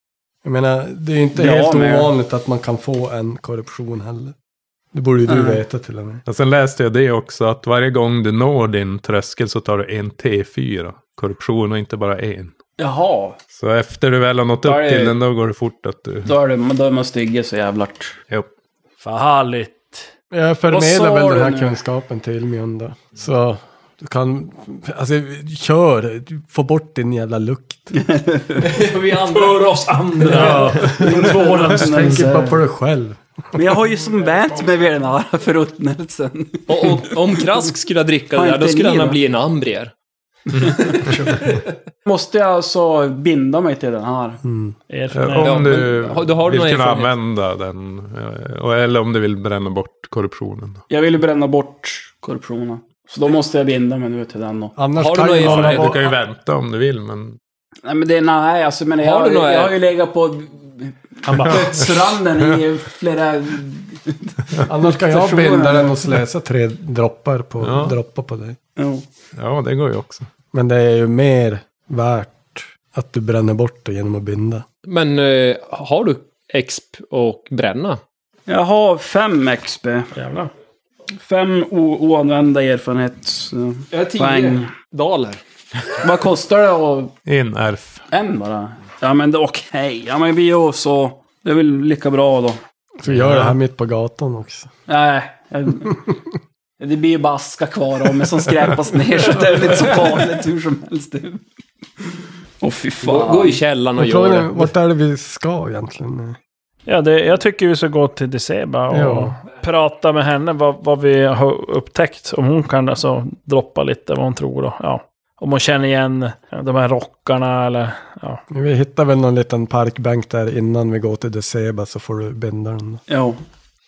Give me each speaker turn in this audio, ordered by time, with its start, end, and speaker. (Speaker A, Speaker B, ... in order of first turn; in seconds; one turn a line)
Speaker A: 0.4-4.3
Speaker B: 1.4-2.1
Speaker A: 4.9-6.2
Speaker B: 5.3-5.6
Speaker C: 6.3-12.5
Speaker B: 12.8-13.4
Speaker C: 13.5-16.3
Speaker B: 14.6-15.2
Speaker B: 16.2-18.2
Speaker D: 19.0-20.1
Speaker A: 20.3-28.0
Speaker B: 20.7-21.8
Speaker B: 27.9-28.7
Speaker E: 28.6-29.6
Speaker D: 28.7-32.4
Speaker A: 30.2-33.6
Speaker B: 30.5-32.6
Speaker B: 33.5-37.4
Speaker E: 36.7-39.9
Speaker B: 38.3-39.2
Speaker C: 40.5-41.3
Speaker B: 40.7-41.0
Speaker E: 40.9-41.6
Speaker B: 42.0-44.4
Speaker A: 44.4-44.8
Speaker D: 44.9-45.9
Speaker C: 45.1-50.8
Speaker E: 45.4-47.2
Speaker B: 50.9-54.8
Speaker A: 54.8-56.1
Speaker E: 55.0-56.0
Speaker D: 55.4-55.8
Speaker C: 55.5-57.4
Speaker B: 57.9-64.3
Speaker E: 59.0-59.8
Speaker C: 61.3-62.6
Speaker A: 64.7-68.6
Speaker B: 64.9-65.9
Speaker C: 67.6-68.0
Speaker B: 68.8-69.0
Speaker C: 69.3-70.3
Speaker A: 70.5-74.7
Speaker E: 74.9-78.0
Speaker B: 78.5-80.1
Speaker D: 80.1-80.5
Speaker B: 81.2-84.7
Speaker E: 83.9-86.0
Speaker B: 86.0-87.1
Speaker C: 87.3-88.0
Speaker B: 88.1-92.6
Speaker A: 93.0-94.7
Speaker C: 93.1-93.6
Speaker B: 94.9-96.0
Speaker B: 96.8-101.4
Speaker B: 102.6-103.6
Speaker E: 103.0-104.7
Speaker A: 104.0-106.4
Speaker D: 106.9-118.4
Speaker A: 108.9-109.3
Speaker A: 118.5-123.0
Speaker B: 123.1-123.4